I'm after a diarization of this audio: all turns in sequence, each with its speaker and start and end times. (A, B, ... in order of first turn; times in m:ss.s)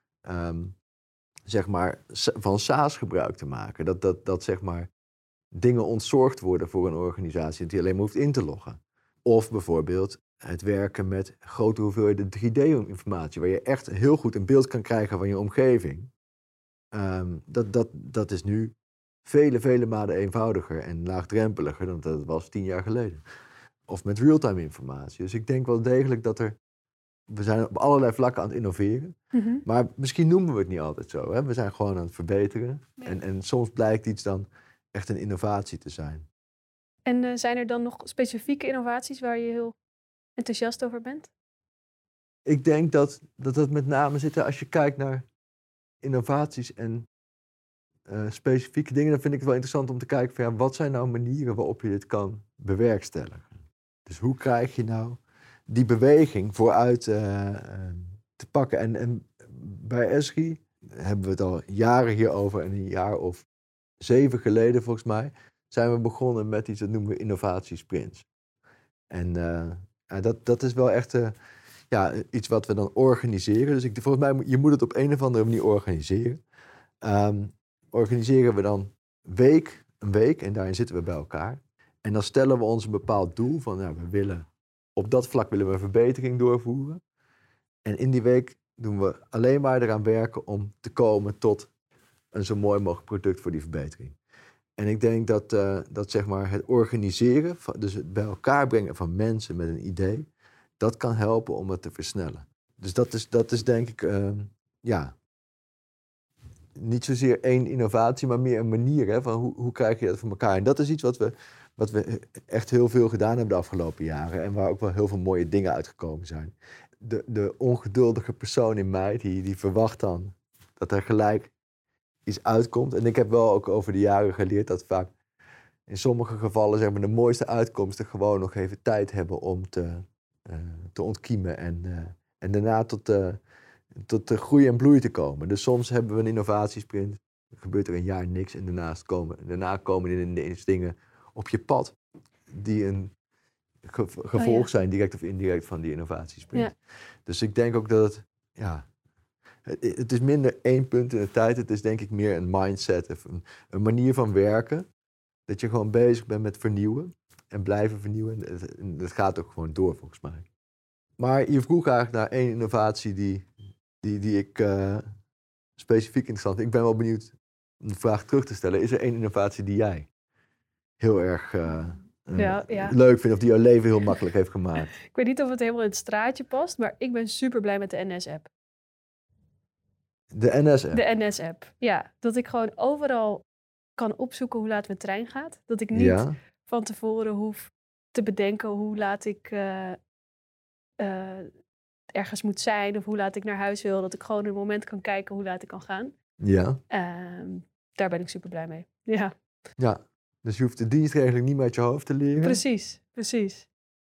0:00.2-0:00.7 A
0:01.5-0:04.9 A
0:05.5-0:16.1 A
0:16.9-0:18.7 A
0:19.2-0:23.2 A
0:23.9-0:26.6 A
0:27.3-0:36.2 A
0:29.3-0:29.6 B
0:37.0-0:39.8 B
0:40.4-0:41.3 B
0:42.4-0:45.2 A
0:46.0-0:47.0 A
0:48.1-0:53.5 A
0:54.0-1:03.4 A
1:04.0-1:08.3 A
1:09.1-1:11.3 A
1:11.9-1:16.4 A
1:17.0-1:27.0 A
1:27.8-1:31.7 A
1:32.3-1:34.2 A
1:34.8-1:40.2 A
1:40.8-1:45.1 A
1:46.7-2:01.5 A
2:02.2-2:05.1 A
2:05.9-2:13.4 A
2:14.0-2:22.0 A
2:22.5-2:23.1 A
2:23.8-2:28.9 A
2:24.4-2:24.7 B
2:29.6-2:34.8 A
2:35.5-2:40.4 A
2:41.2-2:43.5 A
2:44.0-2:45.0 A
2:45.8-2:50.1 A
2:51.0-2:54.9 A
2:52.4-2:52.9 B
2:55.1-2:58.5 B
3:00.3-3:01.0 A
3:00.9-3:03.4 B
3:04.0-3:10.0 B
3:05.9-3:06.3 A
3:11.0-3:11.5 B
3:12.1-3:16.1 B
3:16.4-3:16.8 A
3:16.9-3:19.3 B
3:19.8-3:22.6 A
3:22.4-3:23.7 B